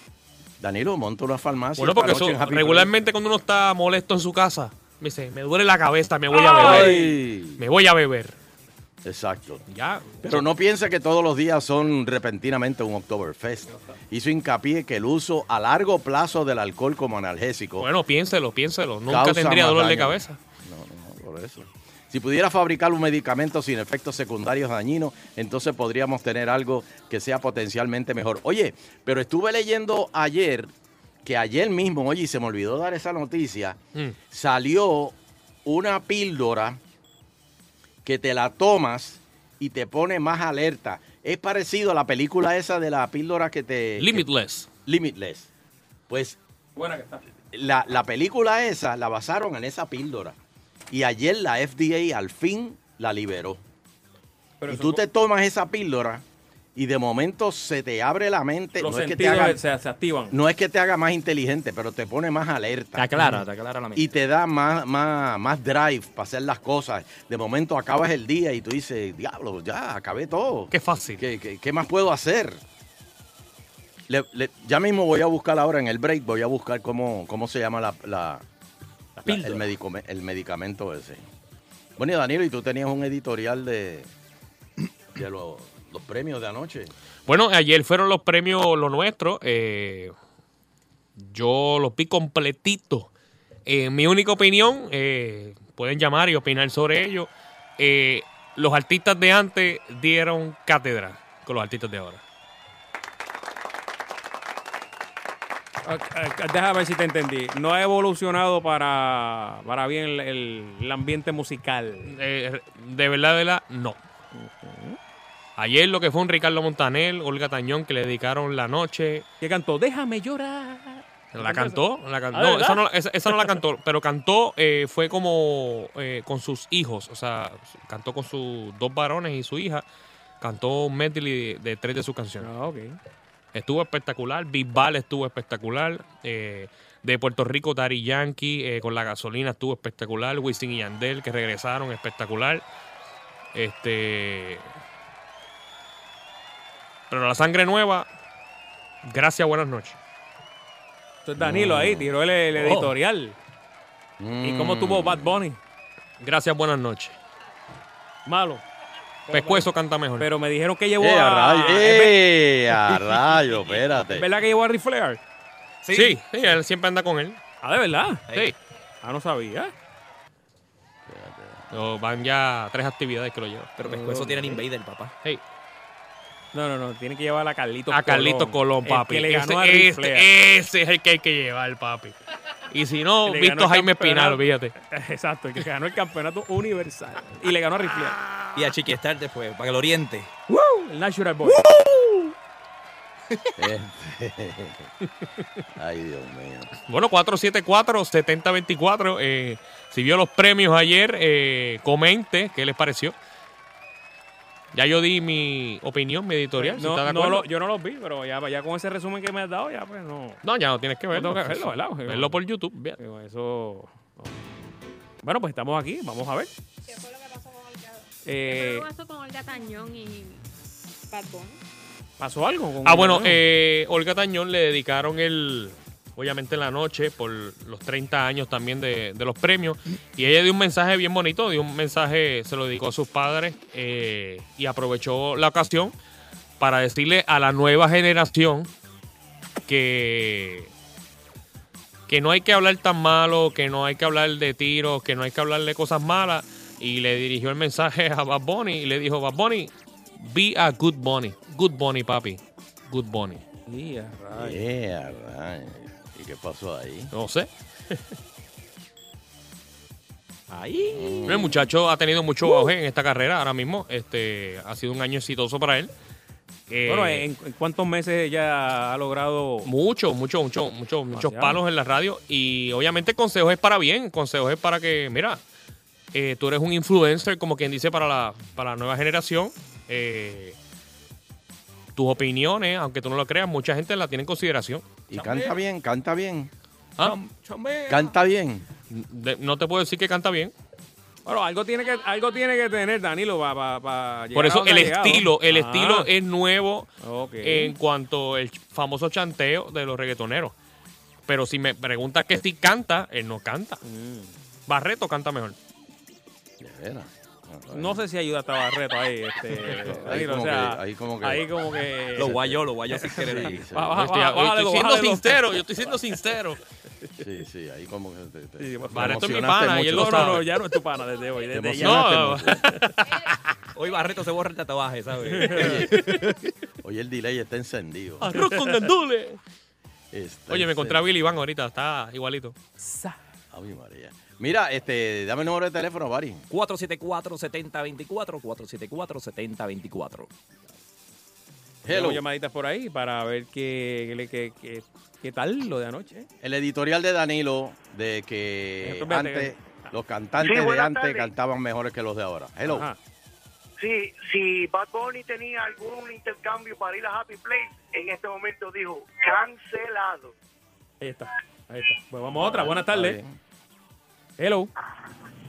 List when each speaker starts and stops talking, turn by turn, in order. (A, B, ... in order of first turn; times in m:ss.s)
0:00.6-0:02.9 A
0:01.8-0:08.4 B
0:06.3-0:07.1 C
0:06.4-0:07.6 A
0:09.0-0:09.6 A
0:09.7-0:10.3 C
0:10.2-0:17.9 A
0:17.8-0:20.4 B
0:19.1-0:30.7 A
0:31.2-0:33.8 A
0:34.3-0:36.8 A
0:38.0-0:44.2 A
0:44.0-0:44.7 B
0:44.9-0:45.5 A
0:46.1-0:46.4 A
0:46.8-0:47.2 C
0:47.5-0:50.4 A
0:50.9-0:53.6 A
0:54.6-0:55.0 C
0:54.7-0:56.2 A
0:56.8-0:59.6 A
0:58.8-1:00.3 C
1:00.3-1:03.2 A
1:03.0-1:04.0 D
1:04.0-1:12.6 A
1:10.7-1:11.2 B
1:14.1-1:18.4 A
1:19.2-1:21.2 A
1:19.3-1:19.6 C
1:22.0-1:24.1 A
1:25.1-1:26.9 A
1:27.3-1:30.1 B
1:31.2-1:33.1 B
1:33.7-1:42.2 B
1:45.8-1:52.2 C
1:52.1-1:54.0 B
1:54.3-1:55.0 C
1:55.6-1:59.3 B
1:59.4-2:01.8 C
2:01.3-2:09.8 B
2:02.3-2:03.6 C
2:10.4-2:12.5 B
2:12.4-2:13.0 C
2:13.5-2:22.6 B
2:23.6-2:24.7 B
2:27.1-2:28.1 B
2:29.0-2:30.0 B
2:31.2-2:33.4 C
2:31.4-2:32.1 A
2:34.2-2:35.4 A
2:34.4-2:35.6 C
2:36.2-2:37.2 B
2:38.3-2:38.6 C
2:39.3-2:40.3 B
2:39.3-2:42.2 C
2:41.0-2:44.3 A
2:44.0-2:45.2 C
2:45.8-2:46.2 D
2:45.9-2:47.4 B
2:47.6-2:48.2 C
2:48.3-2:48.5 D
2:49.0-2:49.7 C
2:51.1-2:51.7 A
2:51.7-2:53.7 B
2:53.8-2:55.1 D
2:53.8-2:54.6 C
2:56.5-3:00.3 C
2:57.9-3:02.2 B
3:02.7-3:04.7 B
3:03.2-3:08.2 C
3:08.6-3:10.3 D
3:10.5-3:11.6 C
3:11.6-3:11.9 D
3:13.6-3:14.9 A
3:15.8-3:16.7 A
3:16.9-3:23.2 B
3:24.7-3:27.5 B
3:26.6-3:30.4 C
3:30.4-3:32.8 B
3:31.1-3:34.4 C
3:35.2-3:36.5 C
3:36.9-3:40.4 E
3:38.2-3:38.9 C
3:41.1-3:41.6 E
3:42.2-3:43.4 C
3:42.8-3:55.9 B
3:56.6-3:58.7 B
3:59.7-4:00.7 B
4:02.1-4:13.4 B
4:13.7-4:14.6 C
4:14.4-4:17.1 A
4:17.1-4:17.5 B
4:20.5-4:21.1 C
4:20.9-4:21.7 A
4:21.3-4:25.9 B
4:26.7-4:27.2 B
4:26.9-4:29.7 C
4:29.7-4:35.4 B
4:31.1-4:31.6 C
4:36.1-4:40.6 B
4:42.0-4:44.8 B
4:45.1-4:46.5 A
4:45.1-4:45.6 D
4:47.0-4:48.1 D
4:47.9-4:48.7 A
4:48.9-4:50.5 B
4:51.3-4:56.1 C
4:54.4-4:56.9 B
4:57.0-4:57.8 C
4:57.4-5:00.5 B
5:01.3-5:03.8 B
5:03.8-5:04.3 C
5:04.7-5:05.6 B
5:06.6-5:08.0 A
5:07.7-5:12.4 C
5:09.6-5:11.5 A
5:12.2-5:13.6 D
5:12.3-5:12.6 A
5:12.9-5:15.4 C
5:13.2-5:14.1 A
5:14.0-5:16.6 B
5:17.2-5:20.3 A
5:18.6-5:19.2 C
5:18.9-5:20.5 B
5:19.8-5:22.2 C
5:21.5-5:22.7 A
5:21.8-5:23.1 B
5:23.0-5:23.3 E
5:23.8-5:26.1 D
5:25.3-5:26.1 C
5:25.5-5:26.0 A
5:26.8-5:28.3 A
5:28.2-5:29.4 B
5:30.1-5:31.1 A
5:30.5-5:32.6 B
5:32.8-5:33.2 C
5:33.5-5:36.4 A
5:36.5-5:40.3 D
5:41.8-5:42.2 A
5:41.9-5:46.3 C
5:46.4-5:52.9 A
5:48.8-5:49.6 C
5:50.5-5:50.8 F
5:52.7-5:53.0 C
5:53.8-6:00.3 F
6:01.0-6:03.2 C
6:02.3-6:03.4 A
6:04.4-6:04.7 C